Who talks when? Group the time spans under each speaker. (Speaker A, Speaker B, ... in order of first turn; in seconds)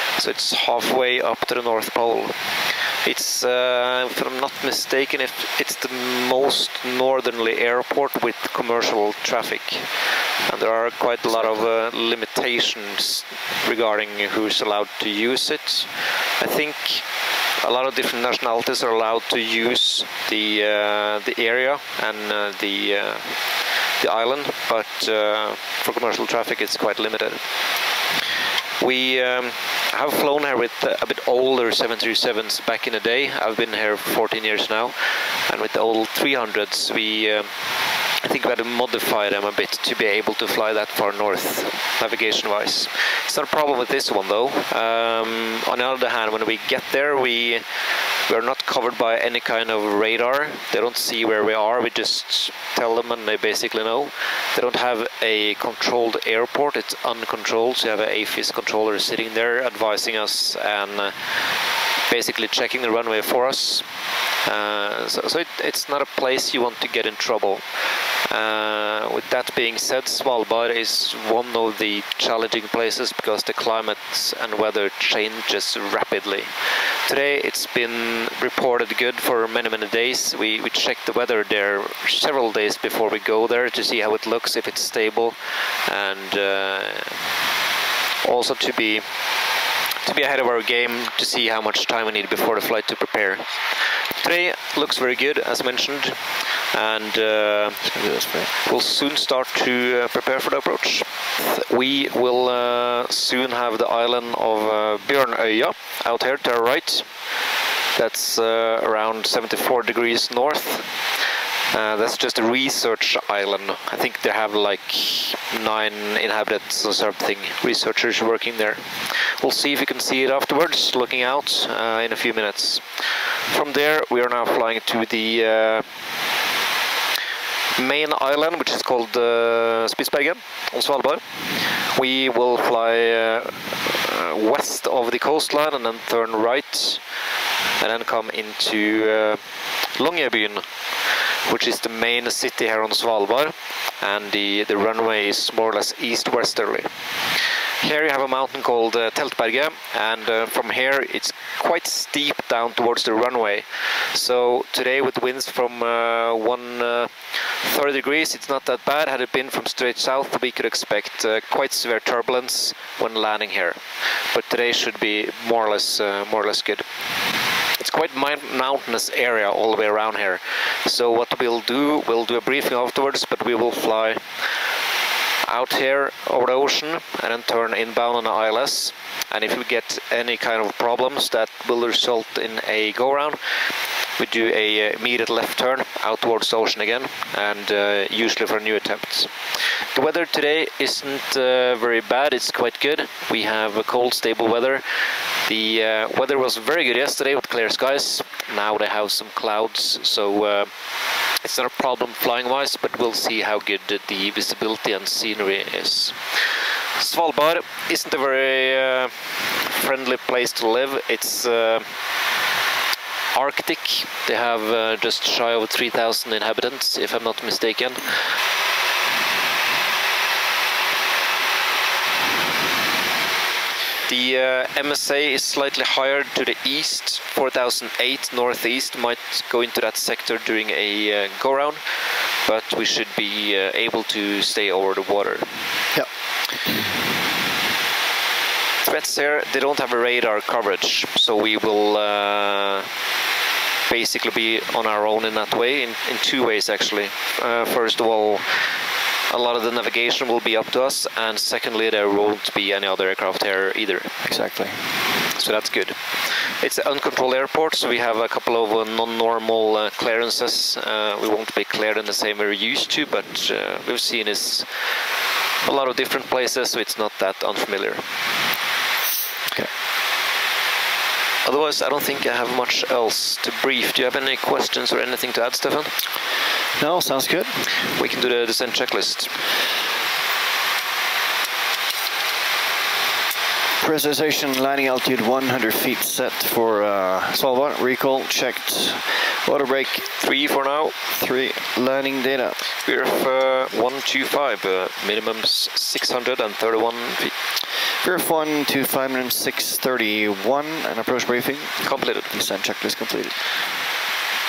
Speaker A: 0.1-27.5, 28.8-47.6, 48.2-61.5, 62.0-63.9, 64.4-67.7, 68.2-87.2, 88.2-89.2, 90.0-97.8, 98.6-107.1, 107.9-125.9, 127.8-137.0, 137.8-139.4, 139.9-146.9, 147.8-163.8, 164.3-166.8, 167.8-174.5, 175.4-183.4, 184.2-194.8, 195.4-200.7, 201.4-206.4, 207.0-211.9, 213.3-218.3, 224.1-231.8, 232.4-235.5, 238.8-242.9, 243.9-248.6, 249.3-254.1, 255.4-264.7, 265.6-268.0, 271.4-275.9, 277.8-279.3, 290.2-290.9, 292.8-297.3, 301.8-302.3
Speaker B: 97.9-98.5, 254.2-254.8, 276.8-277.6, 283.8-290.1, 291.1-292.6, 298.0-303.5